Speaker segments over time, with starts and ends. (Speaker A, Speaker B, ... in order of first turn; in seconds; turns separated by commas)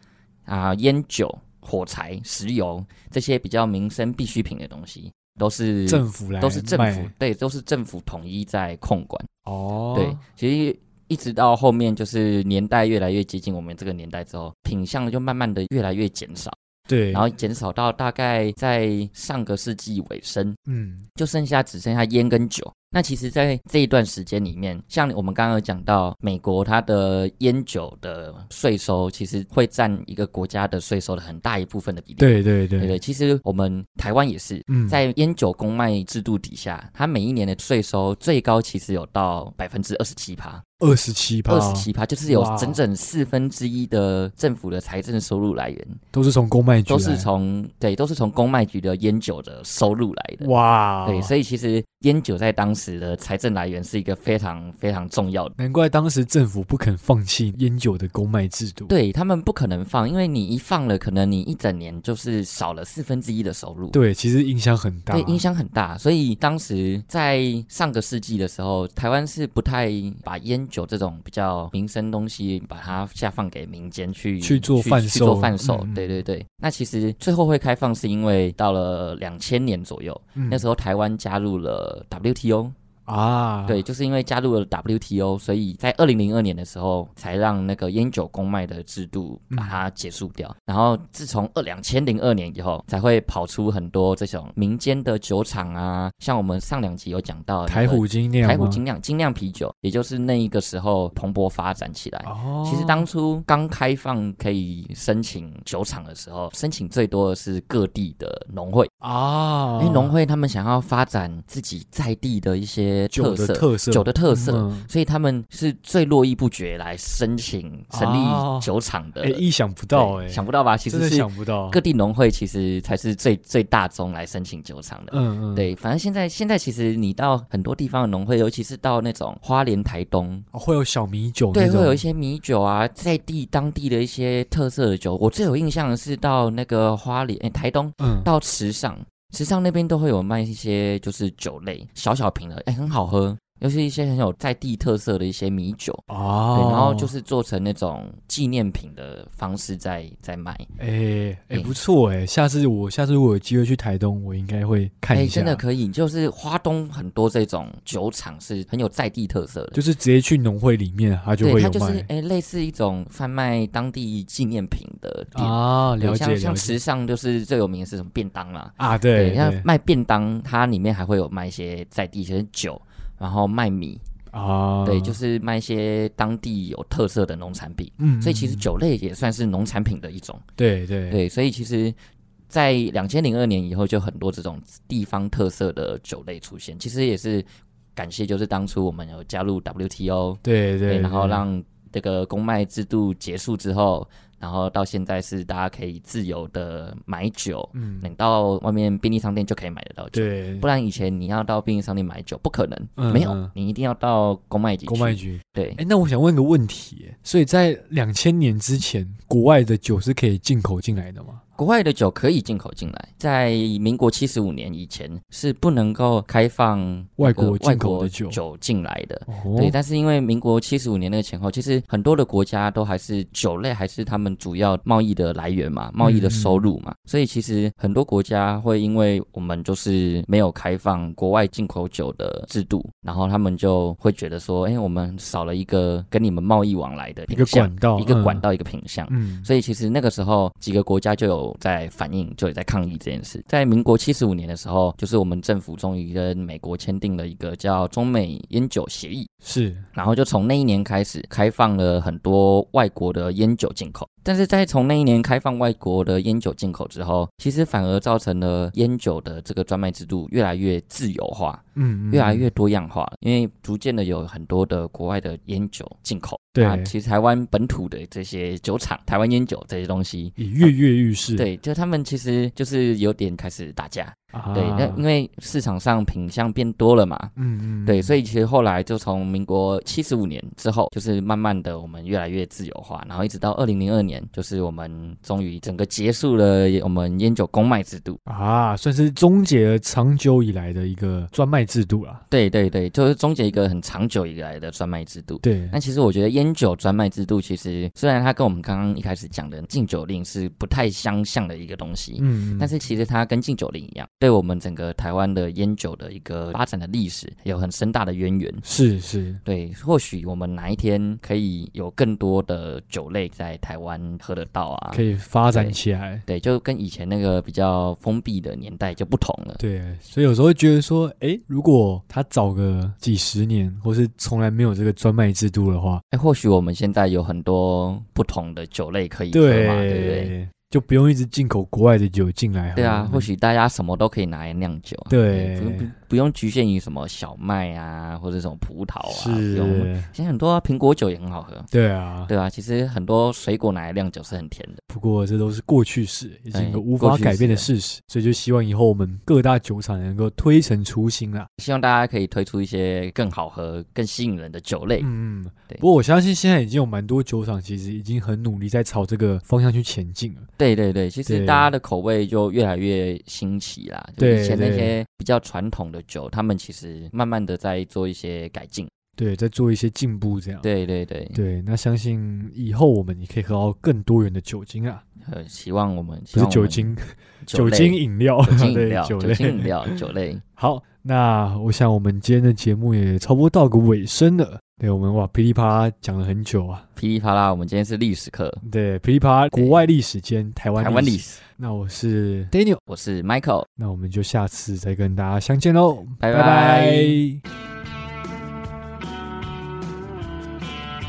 Speaker A: 0.5-9.3, Speaker B: 5.9-7.1, Speaker B: 9.5-10.2, Speaker A: 9.9-16.6, Speaker B: 16.9-17.3, Speaker A: 17.1-20.6, Speaker B: 20.7-21.1, Speaker A: 21.2-40.6, Speaker B: 32.2-33.0, Speaker B: 34.7-35.0, Speaker B: 40.8-42.8, Speaker A: 41.5-46.0, Speaker B: 46.1-47.3, Speaker A: 46.9-50.5, Speaker B: 50.4-51.3, Speaker A: 51.0-55.5, Speaker B: 55.6-58.9, Speaker A: 58.9-64.0, Speaker B: 63.9-65.4, Speaker A: 65.1-82.8, Speaker B: 74.4-76.2, Speaker B: 80.4-80.6, Speaker B: 83.1-83.8, Speaker A: 83.7-108.9, Speaker B: 89.5-89.8, Speaker B: 97.7-98.8, Speaker B: 102.2-103.1, Speaker B: 109.0-110.1, Speaker A: 109.8-130.5, Speaker B: 113.1-114.9, Speaker B: 117.9-118.7, Speaker B: 119.2-121.8, Speaker B: 125.1-125.7, Speaker B: 130.5-132.0, Speaker A: 131.5-150.7, Speaker B: 138.0-138.3, Speaker B: 146.1-147.1, Speaker B: 150.8-155.6, Speaker A: 155.1-159.8, Speaker B: 159.7-162.1, Speaker A: 161.4-174.0, Speaker B: 165.3-166.8, Speaker B: 168.8-169.7, Speaker B: 174.3-175.2, Speaker A: 174.8-180.4, Speaker B: 178.0-178.7, Speaker B: 180.6-181.2, Speaker A: 181.1-182.0, Speaker A: 182.5-205.8, Speaker B: 190.4-191.4, Speaker B: 197.7-198.1, Speaker B: 200.1-200.7, Speaker B: 203.0-203.5, Speaker B: 204.9-211.4, Speaker A: 211.6-249.3, Speaker B: 217.2-218.4, Speaker B: 219.3-219.8, Speaker B: 226.0-226.7, Speaker B: 237.3-238.4, Speaker B: 239.1-239.5, Speaker B: 249.4-249.9, Speaker A: 249.9-270.7, Speaker B: 261.8-262.5, Speaker B: 266.6-266.9, Speaker B: 270.4-271.5, Speaker A: 271.4-277.3, Speaker B: 274.3-275.0, Speaker B: 277.4-278.2, Speaker A: 277.9-288.2, Speaker B: 288.3-292.2, Speaker A: 292.3-308.6, Speaker B: 295.4-295.8, Speaker B: 302.2-302.7, Speaker B: 308.6-309.4, Speaker A: 309.4-319.6, Speaker B: 314.9-316.2, Speaker B: 319.6-326.0, Speaker A: 326.1-330.3, Speaker B: 329.3-333.3, Speaker A: 332.8-341.7, Speaker B: 335.1-335.9, Speaker B: 339.1-340.1, Speaker B: 341.7-342.3, Speaker A: 342.3-344.8, Speaker B: 344.9-351.5, Speaker A: 346.5-347.7, Speaker A: 351.6-355.1, Speaker B: 355.0-360.5, Speaker A: 360.6-368.9, Speaker B: 361.3-361.7, Speaker B: 364.2-364.9, Speaker B: 369.2-370.6, Speaker A: 370.6-371.4, Speaker B: 371.4-375.0, Speaker A: 375.2-380.4, Speaker B: 376.3-380.0, Speaker B: 380.6-386.9, Speaker A: 387.0-388.6, Speaker B: 388.6-392.8, Speaker A: 389.5-389.9, Speaker A: 390.8-391.4, Speaker A: 392.9-393.7, Speaker B: 393.8-397.4, Speaker A: 396.2-397.2